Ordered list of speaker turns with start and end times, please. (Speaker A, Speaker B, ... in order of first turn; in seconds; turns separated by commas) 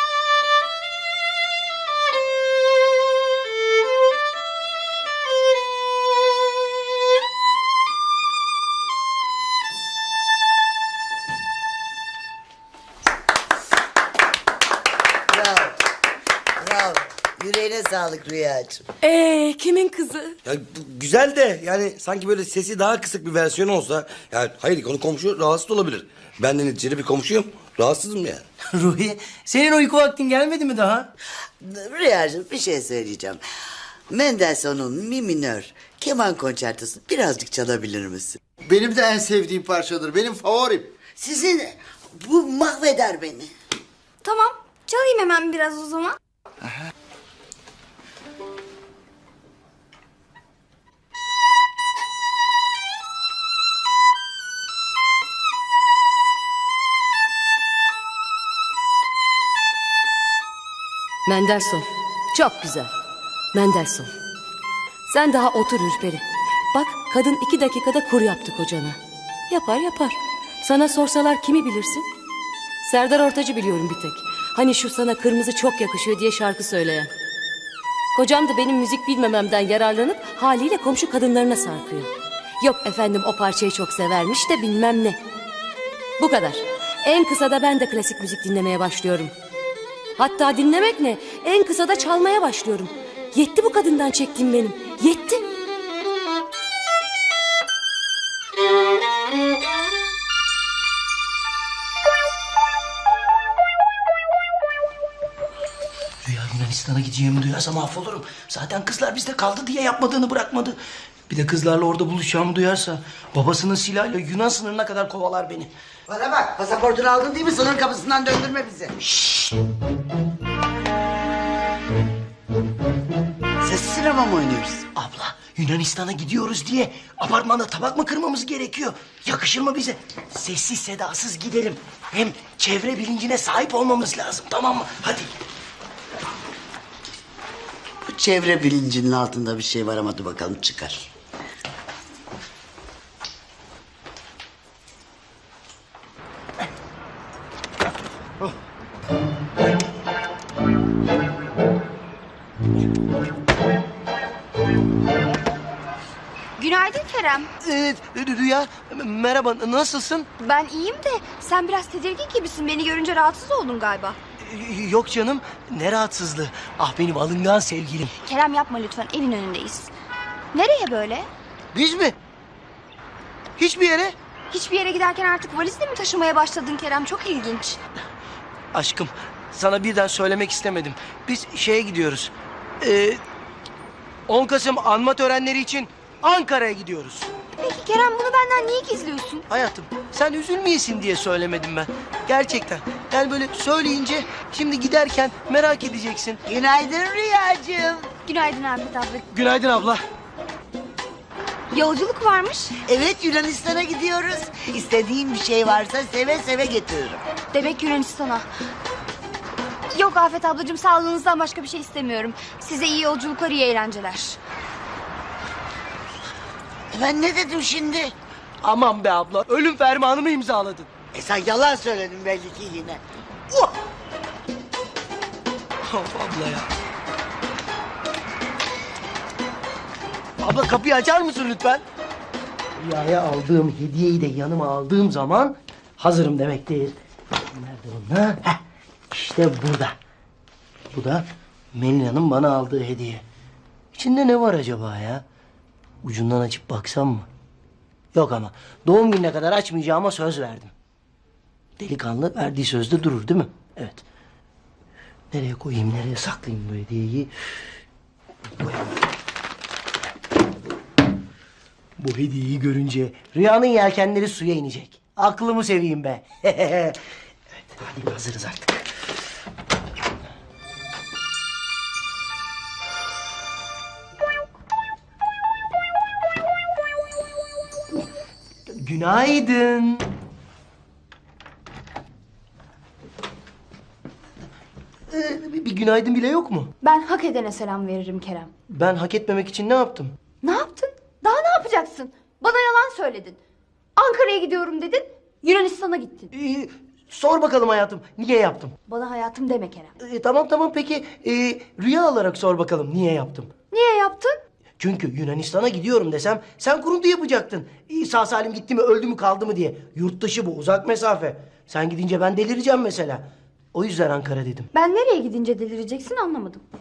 Speaker A: 15.3-15.8, Speaker A: 16.6-18.8, Speaker B: 19.0-20.4, Speaker C: 20.4-28.4, Speaker D: 28.7-31.1, Speaker A: 31.6-33.4, Speaker A: 34.1-38.4, Speaker E: 38.7-41.0, Speaker A: 41.1-43.5, Speaker F: 44.2-46.2, Speaker B: 61.3-62.9, Speaker B: 63.5-64.1, Speaker B: 65.1-66.2, Speaker B: 66.7-69.0, Speaker B: 69.5-72.0, Speaker B: 72.8-77.1, Speaker B: 78.1-82.1, Speaker B: 82.6-85.2, Speaker B: 86.2-89.3, Speaker B: 90.2-95.5, Speaker D: 106.2-110.8, Speaker D: 111.3-115.7, Speaker A: 116.1-119.0, Speaker D: 119.2-119.5, Speaker A: 123.6-124.9, Speaker D: 125.0-135.3, Speaker A: 138.1-141.1, Speaker F: 156.6-157.5, Speaker D: 157.6-160.3, Speaker F: 160.4-164.2, Speaker D: 164.4-168.1, Speaker F: 168.2-169.9, Speaker F: 170.5-171.3, Speaker D: 171.7-172.2, Speaker D: 173.6-174.2, Speaker F: 174.5-177.8, Speaker D: 178.7-183.2, Speaker D: 184.3-187.3, Speaker F: 187.6-189.5, Speaker D: 189.5-196.4, Speaker A: 196.5-198.1, Speaker F: 198.3-199.3, Speaker D: 199.3-200.0, Speaker F: 201.7-202.8, Speaker A: 202.8-207.2, Speaker F: 207.5-208.5, Speaker F: 209.9-214.4, Speaker A: 216.9-218.1, Speaker D: 218.6-220.9, Speaker A: 221.1-223.7, Speaker D: 225.8-226.7, Speaker D: 230.4-231.8, Speaker D: 232.8-236.9, Speaker D: 237.5-238.6, Speaker D: 239.1-240.0, Speaker D: 240.9-243.2, Speaker D: 243.9-245.2, Speaker D: 246.0-247.3, Speaker D: 248.1-250.7, Speaker D: 251.8-254.0, Speaker D: 255.3-257.3, Speaker D: 258.6-258.9, Speaker D: 262.0-267.0, Speaker D: 267.6-268.9, Speaker D: 278.7-280.1, Speaker D: 285.1-286.7, Speaker F: 286.8-288.5, Speaker D: 288.7-290.1, Speaker F: 290.4-293.4, Speaker F: 294.0-296.3, Speaker D: 296.3-298.8, Speaker F: 298.9-299.9, Speaker D: 300.0-303.5, Speaker F: 303.7-304.4, Speaker D: 304.8-314.7, Speaker F: 314.7-316.6